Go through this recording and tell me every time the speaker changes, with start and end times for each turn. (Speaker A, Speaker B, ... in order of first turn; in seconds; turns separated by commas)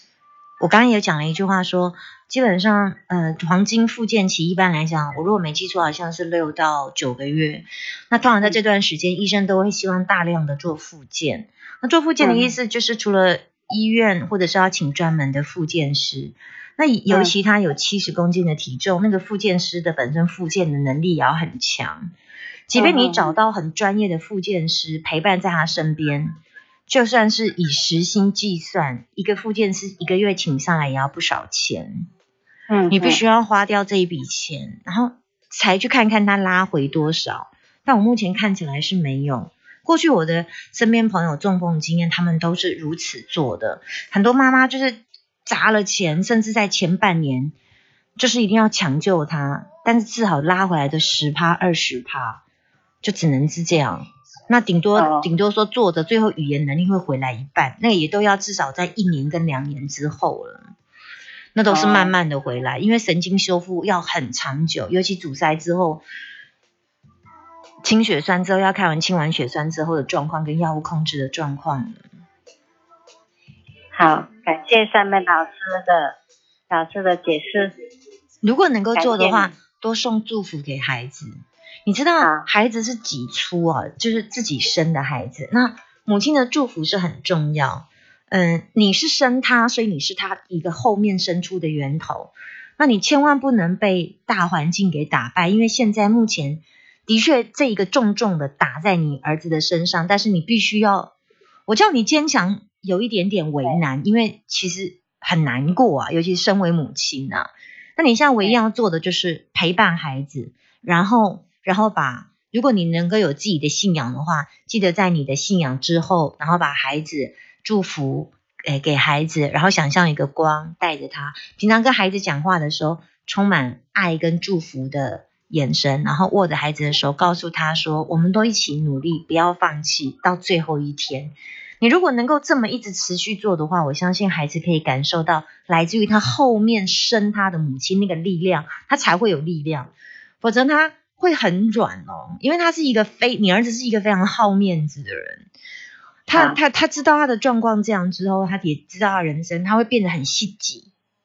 Speaker A: 0.6-22.1, Speaker B: 12.2-12.5, Speaker A: 22.7-26.4, Speaker B: 22.8-23.4, Speaker A: 26.9-32.1, Speaker B: 32.7-33.2, Speaker A: 32.9-47.5, Speaker A: 48.2-52.4, Speaker A: 53.0-60.7, Speaker B: 55.0-55.3, Speaker A: 61.5-66.0, Speaker B: 61.7-62.1, Speaker A: 67.8-72.0, Speaker B: 73.9-76.2, Speaker B: 76.7-77.7, Speaker A: 78.4-81.3, Speaker B: 79.0-79.5, Speaker A: 81.8-101.1, Speaker B: 82.2-82.5, Speaker A: 101.7-145.5, Speaker A: 146.3-150.9, Speaker B: 146.3-146.6